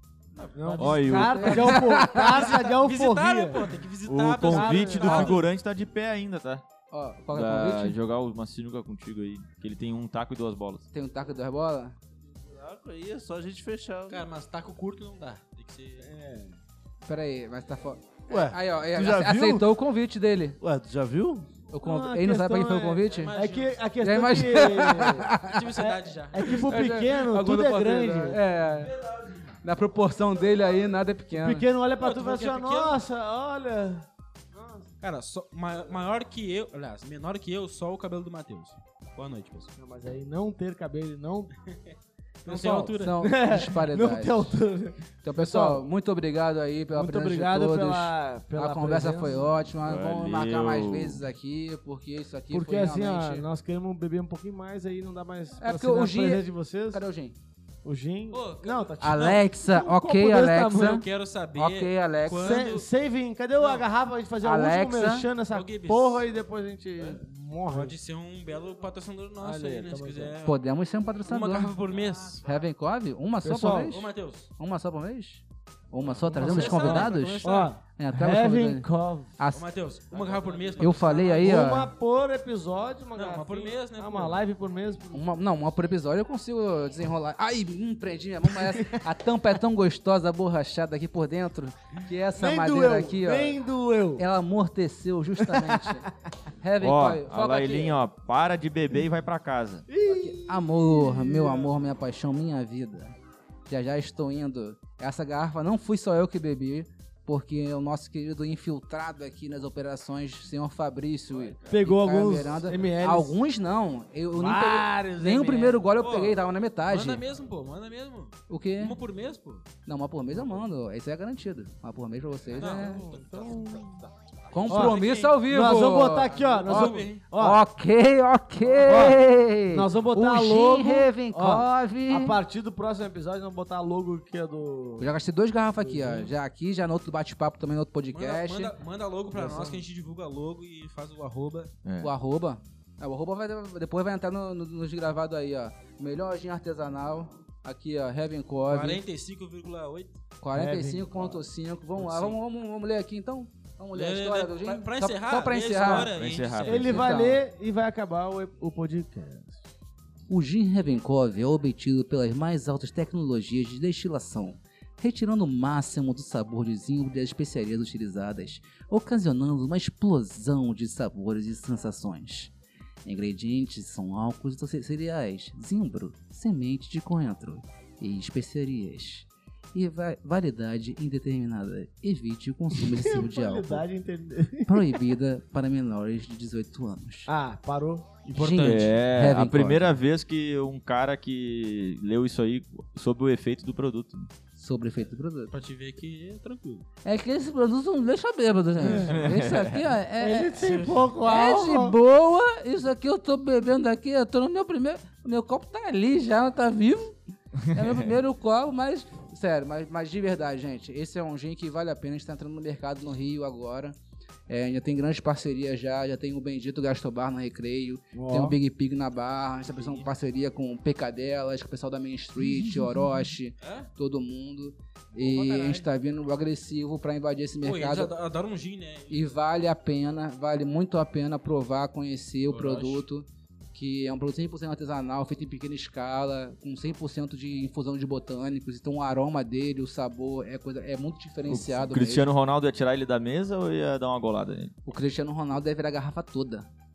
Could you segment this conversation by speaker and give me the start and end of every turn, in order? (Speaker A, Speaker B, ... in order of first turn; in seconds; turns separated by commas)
Speaker A: 0.3-1.3, Speaker B: 0.5-3.8, Speaker C: 0.8-1.8, Speaker D: 1.0-2.5, Speaker A: 2.1-5.5, Speaker C: 4.0-6.6, Speaker B: 4.4-5.4, Speaker D: 6.9-8.0, Speaker C: 7.3-10.9, Speaker D: 10.9-11.9, Speaker E: 12.5-14.2, Speaker A: 14.1-16.1, Speaker B: 16.0-16.6, Speaker D: 17.1-20.6, Speaker E: 18.3-19.7, Speaker E: 20.6-21.5, Speaker D: 21.7-23.3, Speaker B: 21.8-28.4, Speaker A: 23.1-23.8, Speaker D: 24.0-25.6, Speaker A: 25.4-26.7, Speaker D: 26.5-28.9, Speaker D: 29.6-31.6, Speaker B: 31.3-34.9, Speaker A: 32.0-33.0, Speaker A: 35.0-39.7, Speaker B: 39.8-41.5, Speaker A: 42.4-43.4, Speaker B: 42.4-45.9, Speaker D: 43.0-44.6, Speaker D: 45.2-53.5, Speaker B: 46.9-49.5, Speaker C: 49.8-51.2, Speaker B: 52.5-57.0, Speaker D: 55.6-57.4, Speaker B: 57.8-61.0, Speaker A: 58.3-59.4, Speaker D: 59.0-62.7, Speaker A: 60.8-62.9, Speaker B: 62.3-68.0, Speaker A: 63.6-63.8, Speaker D: 64.4-65.3, Speaker A: 65.5-66.2, Speaker A: 67.7-70.6, Speaker B: 69.4-70.4, Speaker D: 70.5-71.7, Speaker A: 71.2-72.4, Speaker D: 72.4-78.9, Speaker B: 73.4-74.0, Speaker A: 73.9-74.5, Speaker A: 76.2-77.7, Speaker B: 76.3-79.3, Speaker D: 79.4-79.7, Speaker A: 79.5-81.7, Speaker B: 80.2-85.2, Speaker D: 80.8-81.9, Speaker A: 83.1-84.4, Speaker D: 85.1-93.6, Speaker B: 88.5-89.0, Speaker B: 92.3-94.3, Speaker D: 94.2-96.1, Speaker B: 95.4-96.1, Speaker D: 96.6-98.0, Speaker C: 96.8-99.9, Speaker B: 99.9-101.9, Speaker D: 100.0-103.1, Speaker D: 103.7-117.2, Speaker B: 111.7-113.4, Speaker B: 114.3-115.9, Speaker A: 116.0-119.7, Speaker D: 118.5-119.0, Speaker D: 119.8-123.1, Speaker A: 122.6-125.4, Speaker B: 122.6-124.0, Speaker D: 124.5-132.4, Speaker B: 124.7-127.6, Speaker A: 126.2-127.2, Speaker B: 128.7-135.1, Speaker D: 135.0-138.8, Speaker B: 135.8-136.3, Speaker A: 138.1-141.7, Speaker B: 139.3-139.8, Speaker C: 141.8-142.1, Speaker D: 142.0-149.0, Speaker A: 148.7-150.2, Speaker D: 150.4-156.1, Speaker B: 150.5-151.5, Speaker A: 152.0-152.3, Speaker A: 153.9-157.1, Speaker C: 156.0-157.1, Speaker B: 156.6-159.6, Speaker D: 156.9-157.4, Speaker D: 160.3-172.5, Speaker D: 173.0-183.8, Speaker B: 182.7-185.0, Speaker D: 184.7-187.3, Speaker B: 187.2-188.9, Speaker D: 188.3-189.9, Speaker C: 188.5-194.3, Speaker D: 194.6-195.5, Speaker A: 195.5-196.8, Speaker D: 197.0-207.2, Speaker B: 198.8-199.2, Speaker C: 198.8-199.8, Speaker B: 200.2-202.0, Speaker A: 200.6-201.0, Speaker D: 207.7-213.9, Speaker C: 207.8-208.1, Speaker D: 214.5-228.1, Speaker B: 218.1-218.6, Speaker A: 223.6-223.9, Speaker A: 225.1-225.8, Speaker A: 227.6-229.3, Speaker D: 229.1-242.3, Speaker A: 232.5-233.0, Speaker C: 241.5-244.7, Speaker D: 244.8-246.7